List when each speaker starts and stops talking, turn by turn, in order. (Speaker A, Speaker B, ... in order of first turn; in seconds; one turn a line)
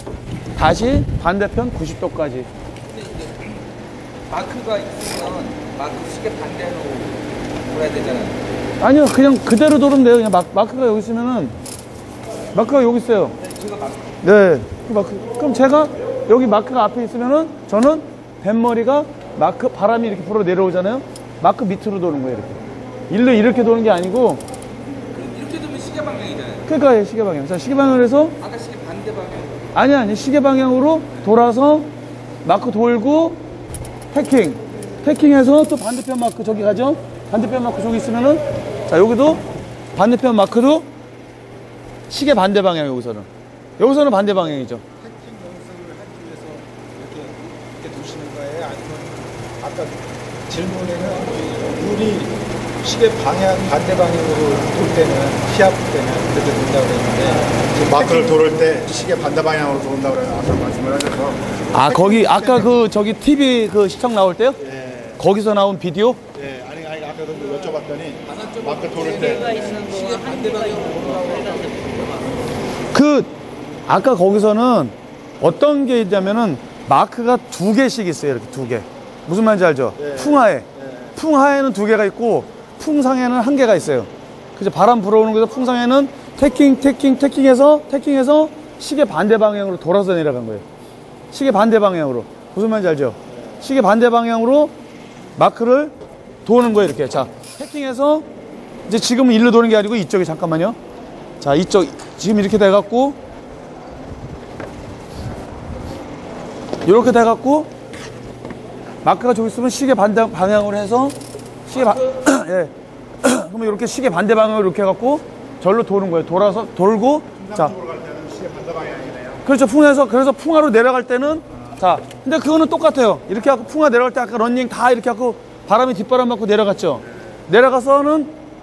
Speaker A: 0.6-2.5
Speaker B: 2.9-3.6
Speaker B: 4.3-8.4
Speaker A: 8.8-11.6
Speaker A: 12.6-13.4
Speaker B: 13.4-14.1
Speaker A: 14.2-22.6
Speaker A: 23.1-24.4
Speaker B: 25.1-26.6
Speaker A: 26.6-28.4
Speaker B: 28.4-29.7
Speaker A: 29.8-31.9
Speaker A: 32.5-33.4
Speaker A: 34.1-39.4
Speaker A: 40.0-40.9
Speaker A: 42.1-43.3
Speaker A: 43.8-44.8
Speaker C: 45.0-62.7
Speaker A: 61.7-64.6
Speaker C: 64.6-65.2
Speaker A: 65.2-66.2
Speaker C: 66.3-69.8
Speaker B: 68.3-72.1
Speaker A: 72.9-73.3
Speaker A: 73.9-90.6
Speaker C: 80.0-81.1
Speaker A: 91.3-94.7
Speaker A: 95.4-95.9
Speaker A: 96.5-98.3
Speaker A: 98.9-100.8
Speaker A: 101.4-103.2
Speaker A: 106.8-107.7
Speaker A: 109.0-111.2
Speaker A: 111.7-117.8
Speaker C: 117.4-119.4
Speaker A: 119.5-128.3